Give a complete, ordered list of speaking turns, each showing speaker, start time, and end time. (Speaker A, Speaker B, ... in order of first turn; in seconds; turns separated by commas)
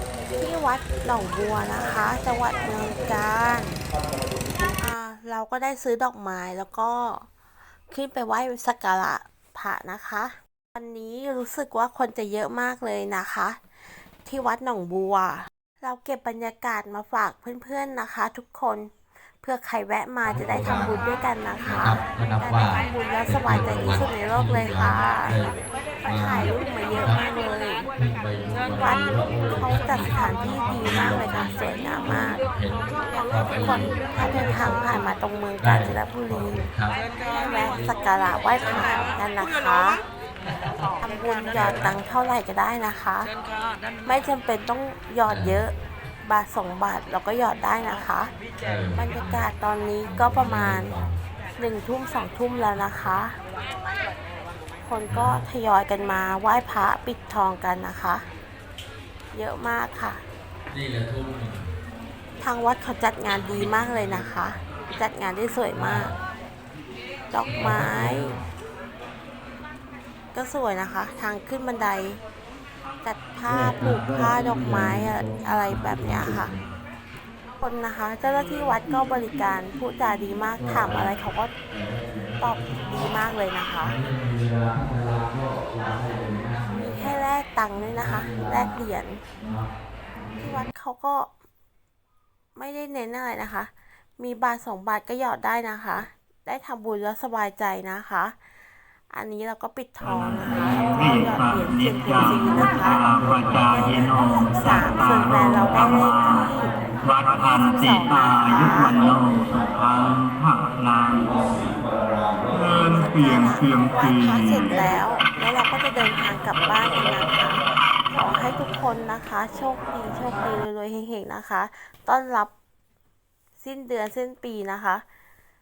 Speaker A: 0.3-3.8, Speaker A: 4.5-7.3, Speaker A: 7.9-13.6, Speaker A: 14.2-18.9, Speaker A: 19.4-25.4, Speaker B: 20.2-21.0, Speaker B: 21.6-27.2, Speaker A: 26.0-27.9, Speaker B: 28.0-35.0, Speaker A: 28.7-36.7, Speaker B: 35.6-37.0, Speaker A: 37.2-40.0, Speaker A: 41.0-43.3, Speaker B: 41.7-42.0, Speaker A: 44.0-45.7, Speaker B: 45.2-45.6, Speaker A: 46.2-48.3, Speaker B: 48.6-49.5, Speaker A: 48.9-50.9, Speaker B: 50.0-51.2, Speaker A: 51.6-53.4, Speaker A: 54.8-58.2, Speaker B: 55.1-55.4, Speaker A: 59.3-60.2, Speaker B: 60.7-61.7, Speaker A: 62.4-66.1, Speaker B: 63.5-64.0, Speaker B: 65.7-66.2, Speaker A: 67.3-68.3, Speaker B: 67.5-68.4, Speaker A: 70.3-72.2, Speaker A: 73.0-76.5, Speaker B: 73.5-76.7, Speaker A: 77.6-81.5, Speaker B: 80.5-81.1, Speaker B: 81.7-83.1, Speaker A: 82.4-84.0, Speaker B: 83.8-87.1, Speaker A: 86.7-89.2, Speaker B: 87.8-88.8, Speaker B: 89.3-90.6, Speaker A: 90.4-91.3, Speaker A: 92.5-98.3, Speaker A: 99.1-106.8, Speaker B: 100.0-100.5, Speaker C: 100.7-111.4, Speaker B: 103.2-104.0, Speaker B: 105.0-105.5, Speaker A: 107.3-109.0, Speaker C: 112.5-114.8, Speaker A: 112.8-122.5, Speaker A: 123.6-125.0